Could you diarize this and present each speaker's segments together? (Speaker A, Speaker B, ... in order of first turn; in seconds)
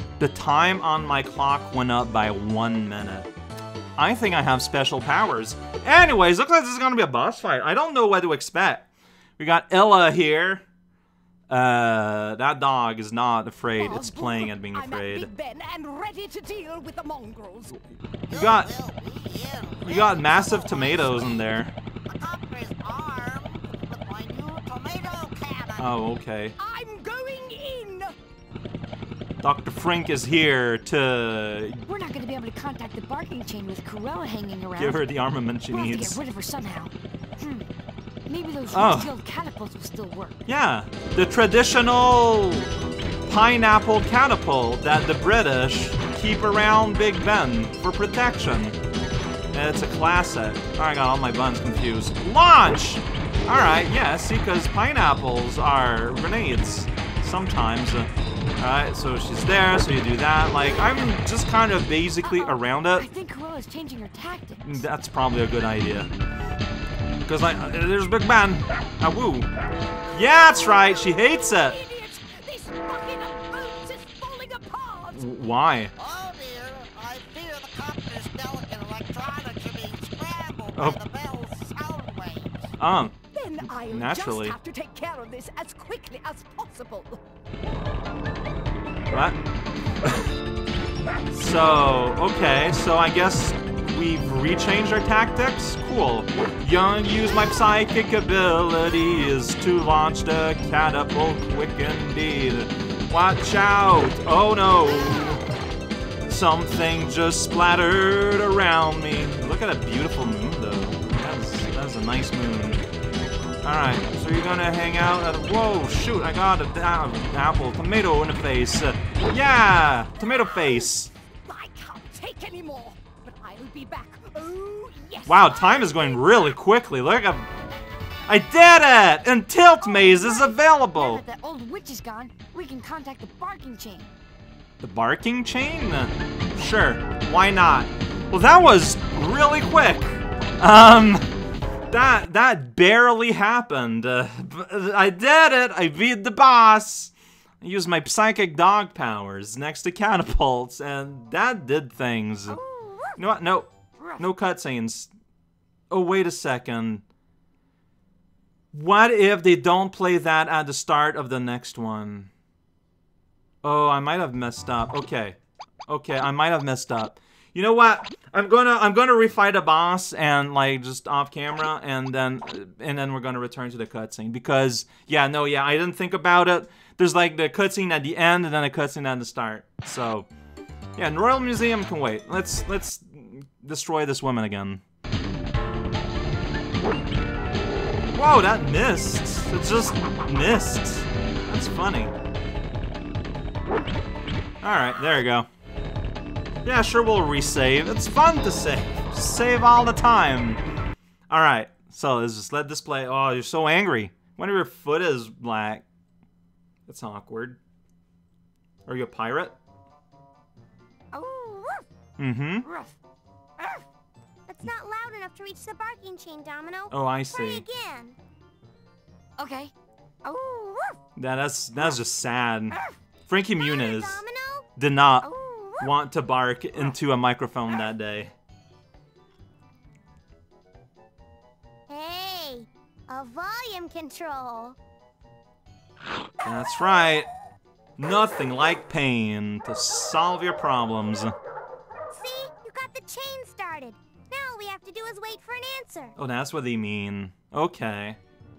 Speaker A: 0.2-3.3, 4.0-8.9, 9.4-10.7, 11.5-15.3, 18.3-18.7, 19.8-21.8, 25.8-26.6, 29.4-31.9, 34.8-36.2, 38.7-39.1, 40.5-42.7, 43.3-48.8, 49.5-63.1, 64.6-66.1, 67.2-69.5, 70.1-71.8, 75.1-75.9, 80.8-81.0, 82.8-84.6, 89.1-89.4, 90.0-90.3, 91.3-105.4, 106.3-112.8, 113.6-121.1, 125.3-127.5, 128.3-131.2, 134.8-141.3, 141.9-152.6, 153.2-155.1, 155.9-157.0, 158.7-162.3, 163.6-180.3, 181.0-184.8, 188.1-192.1, 194.6-195.5, 196.7-200.6, 201.3-205.8, 206.9-207.6, 208.9-209.6, 212.2-212.7, 216.9-217.7, 221.2-224.2, 224.8-228.3, 236.4-237.3, 238.0-241.3, 246.2-248.2
Speaker B: 13.8-17.8, 26.6-28.1, 71.6-75.2, 83.3-87.2, 121.4-126.2
Speaker C: 18.3-21.3, 22.1-25.8, 76.0-82.7
Speaker D: 31.9-35.0, 35.7-37.7, 38.3-40.4, 62.2-64.8, 129.9-134.1, 152.5-153.2, 211.1-211.8, 212.7-213.0, 213.6-213.8, 219.4-219.7, 220.2-221.0, 225.2-225.9
Speaker E: 214.5-218.2, 223.6-224.7, 231.9-234.8, 242.1-246.1